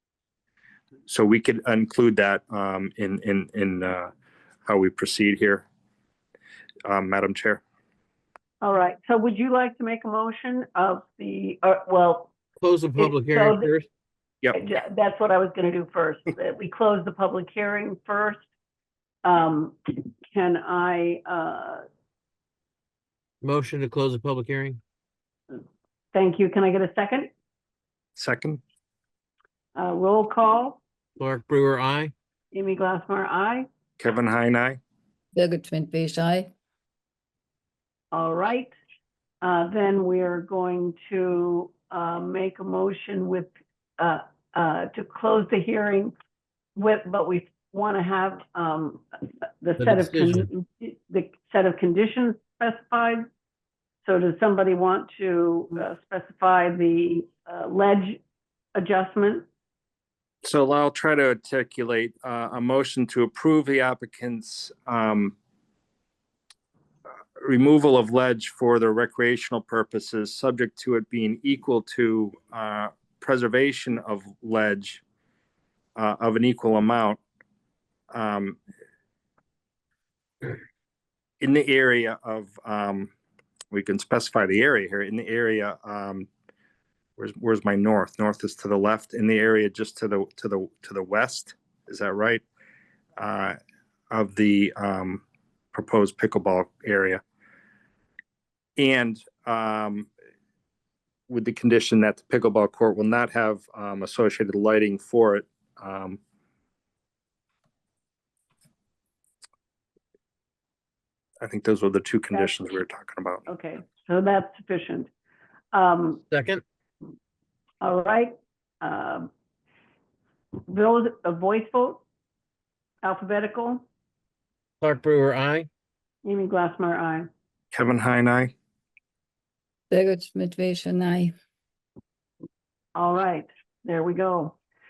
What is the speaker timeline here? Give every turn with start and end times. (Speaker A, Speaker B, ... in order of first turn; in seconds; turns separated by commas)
Speaker A: 1.1-4.1, Speaker A: 4.7-5.7, Speaker A: 6.8-7.6, Speaker B: 8.6-12.3, Speaker C: 12.6-13.9, Speaker B: 13.0-13.7, Speaker B: 14.5-18.4, Speaker B: 19.2-21.8, Speaker C: 23.4-24.8, Speaker B: 26.1-27.3, Speaker A: 28.2-28.6, Speaker B: 29.8-30.8, Speaker C: 31.2-32.1, Speaker B: 32.5-33.7, Speaker A: 34.0-34.8, Speaker D: 35.3-36.5, Speaker B: 38.1-38.7, Speaker B: 39.4-46.1, Speaker B: 46.8-53.3, Speaker C: 49.8-50.5, Speaker B: 54.0-58.2, Speaker B: 58.8-59.5, Speaker A: 60.4-65.3, Speaker A: 67.4-75.0, Speaker A: 76.0-77.2, Speaker A: 78.1-78.6, Speaker A: 81.4-83.1, Speaker A: 83.7-86.3, Speaker A: 87.2-92.4, Speaker A: 93.2-93.6, Speaker A: 94.1-95.2, Speaker A: 95.7-97.2, Speaker A: 98.8-100.1, Speaker A: 101.3-106.2, Speaker A: 111.4-113.4, Speaker B: 112.3-112.7, Speaker B: 113.5-115.1, Speaker B: 115.7-116.2, Speaker C: 116.3-116.6, Speaker B: 117.8-119.3, Speaker B: 120.7-122.0, Speaker B: 123.0-123.8, Speaker C: 124.8-125.7, Speaker B: 126.2-127.3, Speaker A: 127.7-128.5, Speaker D: 129.9-131.3, Speaker B: 132.9-134.6